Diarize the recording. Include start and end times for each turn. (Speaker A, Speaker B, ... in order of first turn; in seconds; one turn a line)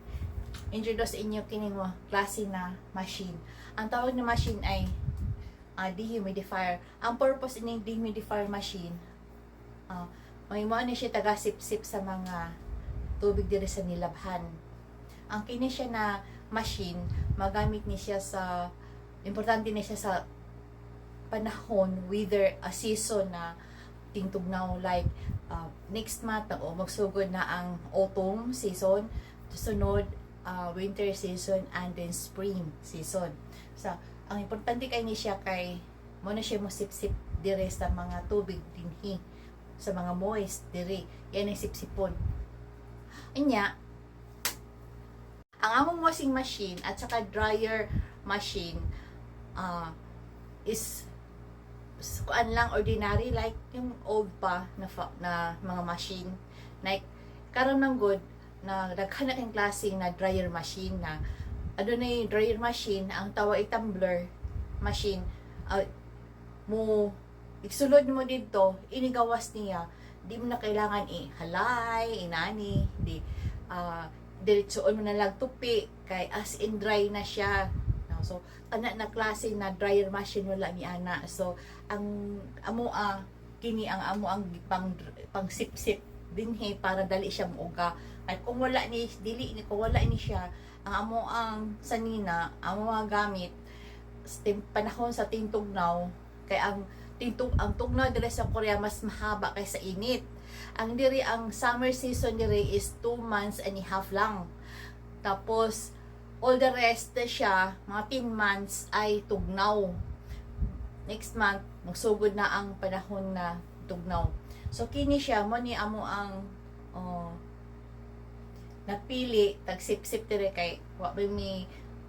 Speaker A: 0.7-4.9
Speaker A: 5.8-9.0
Speaker A: 9.9-12.4
Speaker A: 13.2-14.5
Speaker A: 15.3-18.7
Speaker A: 19.2-20.2
Speaker A: 21.3-23.5
Speaker A: 24.1-39.2
Speaker A: 39.8-42.1
Speaker A: 43.3-43.7
Speaker A: 45.6-48.8
Speaker A: 49.6-49.9
Speaker A: 50.6-51.1
Speaker A: 52.0-61.2
Speaker A: 61.8-64.3
Speaker A: 64.8-65.9
Speaker A: 66.7-93.5
Speaker A: 94.2-100.2
Speaker A: 100.8-104.5
Speaker A: 105.2-110.0
Speaker A: 111.1-117.4
Speaker A: 118.9-121.7